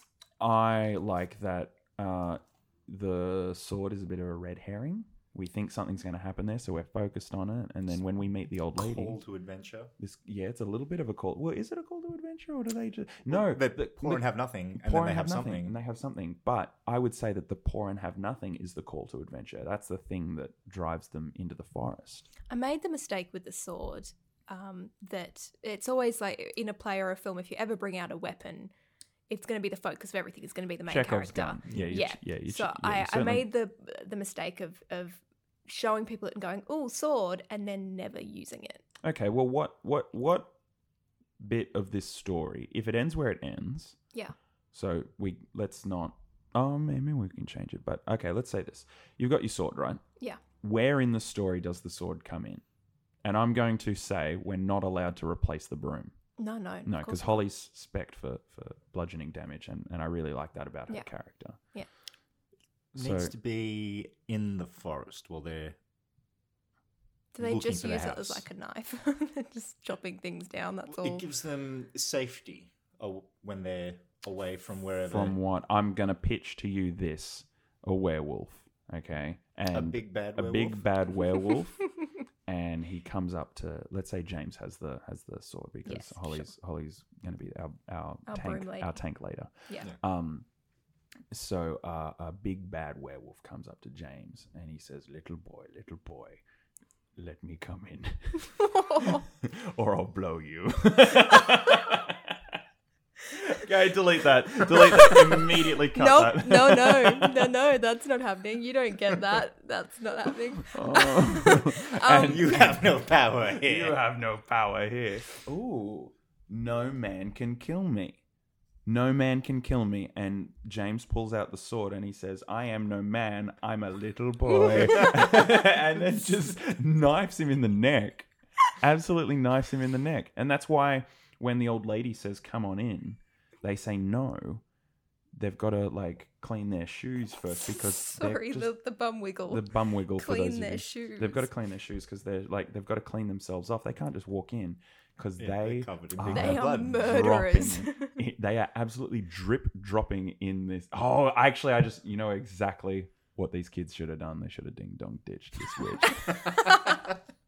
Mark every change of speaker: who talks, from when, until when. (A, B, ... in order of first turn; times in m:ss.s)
0:00.4-0:09.2 A
0:08.8-0:09.9 B
0:10.0-0:22.3 A
0:13.3-0:15.8 B
0:22.5-0:28.7 C
0:29.3-0:38.8 C
0:30.9-0:33.5 A
0:31.7-0:32.0 B
0:39.0-0:40.5 A
0:41.4-0:44.0 A
0:44.7-0:50.0 A
0:50.6-0:52.6 A
0:53.2-0:56.2 A
0:56.4-0:57.3 C
0:56.9-1:01.6 A
1:02.9-1:05.8 B
1:03.0-1:03.3 A
1:07.3-1:11.2 C
1:07.4-1:08.4 B
1:10.9-1:15.4 B
1:15.1-1:21.9 A
1:19.7-1:20.8 B
1:22.5-1:30.5 A
1:25.9-1:26.5 C
1:28.3-1:29.0 C
1:31.3-1:36.4 A
1:37.2-1:42.6 A
1:38.4-1:39.2 C
1:43.3-1:47.5 A
1:44.8-1:52.7 C
1:50.6-1:52.9 A
1:52.1-1:54.0 B
1:53.5-1:58.2 A
1:58.9-2:08.3 A
2:08.8-2:14.6 A
2:15.3-2:18.7 A
2:17.9-2:21.5 C
2:19.5-2:36.6 A
2:25.4-2:27.4 B
2:26.3-2:28.2 C
2:36.6-2:36.9 C